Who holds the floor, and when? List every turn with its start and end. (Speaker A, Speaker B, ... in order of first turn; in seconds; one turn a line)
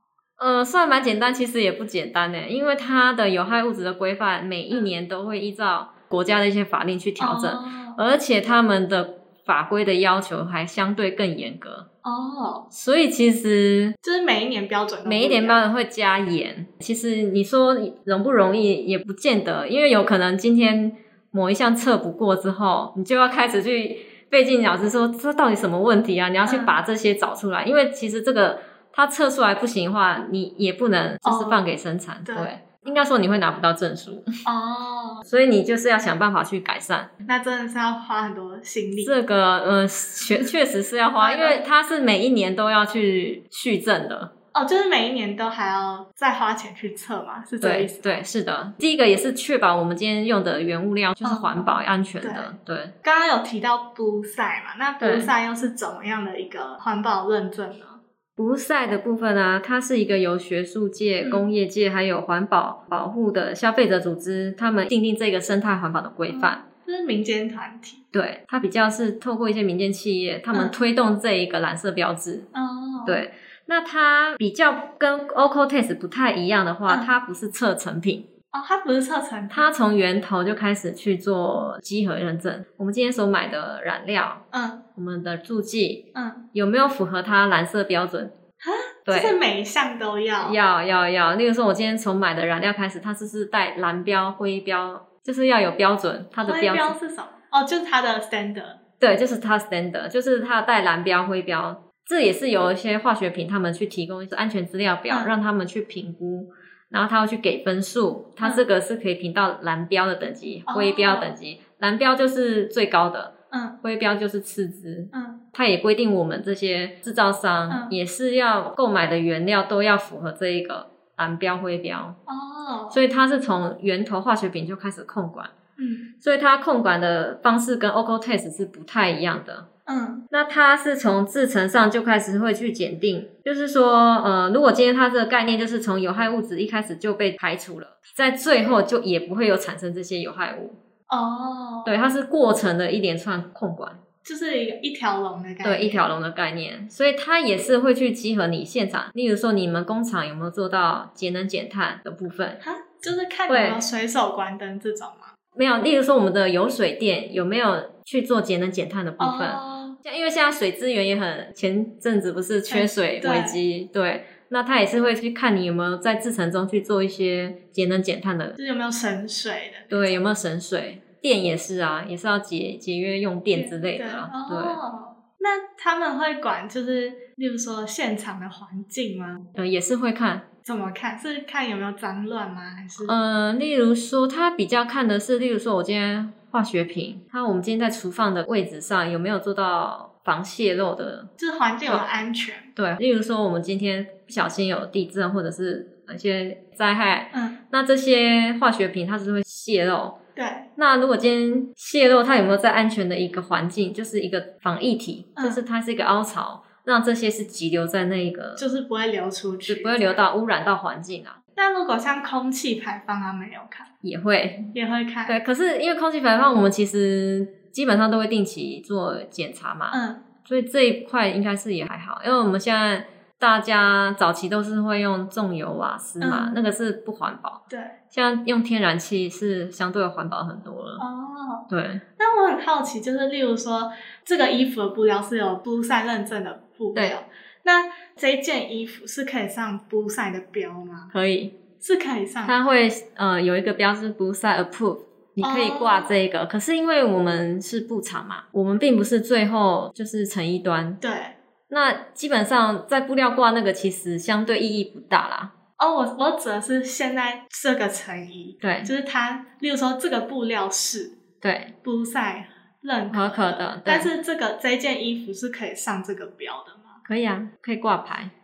Speaker A: 0.4-11.9
Speaker B: 7.2-8.0
Speaker B: 12.0-12.7
Speaker A: 12.7-14.0
Speaker B: 14.0-15.6
Speaker A: 15.1-34.3
Speaker B: 26.5-26.8
Speaker B: 31.2-31.6
Speaker B: 32.2-32.6
Speaker B: 34.5-35.3
Speaker A: 35.3-37.1
Speaker B: 37.3-39.1
Speaker A: 39.0-44.3
Speaker B: 41.2-41.6
Speaker B: 44.5-48.2
Speaker A: 47.6-53.0
Speaker B: 51.2-58.0
Speaker A: 55.0-55.3
Speaker A: 58.4-66.6
Speaker B: 61.2-61.5
Speaker B: 66.3-68.0
Speaker A: 68.1-72.5
Speaker B: 72.5-73.2
Speaker A: 73.1-78.3
Speaker B: 78.5-79.7
Speaker A: 79.5-84.5
Speaker B: 84.5-84.8
Speaker A: 85.0-88.3
Speaker B: 86.2-86.5
Speaker B: 88.6-90.6
Speaker A: 89.1-89.4
Speaker A: 90.4-97.0
Speaker B: 96.4-98.8
Speaker A: 99.0-122.2
Speaker B: 108.4-108.7
Speaker B: 110.7-111.4
Speaker B: 113.5-113.8
Speaker B: 115.1-115.4
Speaker B: 117.7-118.0
Speaker B: 122.3-123.0
Speaker A: 122.9-125.5
Speaker B: 125.8-126.1
Speaker A: 126.2-129.7
Speaker B: 129.9-130.3
Speaker A: 130.3-140.8
Speaker B: 141.1-141.9
Speaker A: 141.9-144.0
Speaker B: 144.2-146.0
Speaker A: 145.6-152.6
Speaker B: 152.6-155.3
Speaker A: 153.5-153.8
Speaker A: 155.6-168.6
Speaker B: 159.2-160.0
Speaker B: 162.7-163.6
Speaker B: 168.6-170.2
Speaker A: 169.9-174.8
Speaker B: 173.5-179.5
Speaker A: 179.6-180.5
Speaker B: 180.7-183.1
Speaker A: 183.0-191.3
Speaker B: 191.4-192.7
Speaker A: 192.8-200.2
Speaker B: 197.3-197.6
Speaker B: 200.4-200.7
Speaker A: 200.8-208.7
Speaker B: 205.4-205.6
Speaker B: 208.6-210.2
Speaker A: 209.7-211.4
Speaker B: 211.6-213.9
Speaker A: 214.0-214.8
Speaker B: 214.7-215.4
Speaker A: 215.3-231.0
Speaker B: 219.9-220.2
Speaker B: 226.2-226.6
Speaker B: 227.7-228.0
Speaker B: 231.0-241.1
Speaker A: 231.7-232.0
Speaker A: 236.9-237.2
Speaker A: 241.1-241.6
Speaker B: 241.8-242.6
Speaker A: 242.5-251.0
Speaker B: 245.4-246.1
Speaker B: 251.0-251.4
Speaker A: 251.7-255.5
Speaker B: 255.8-261.1
Speaker A: 258.6-258.9
Speaker A: 261.4-261.7
Speaker B: 261.8-267.0
Speaker A: 263.1-264.1
Speaker A: 267.1-268.3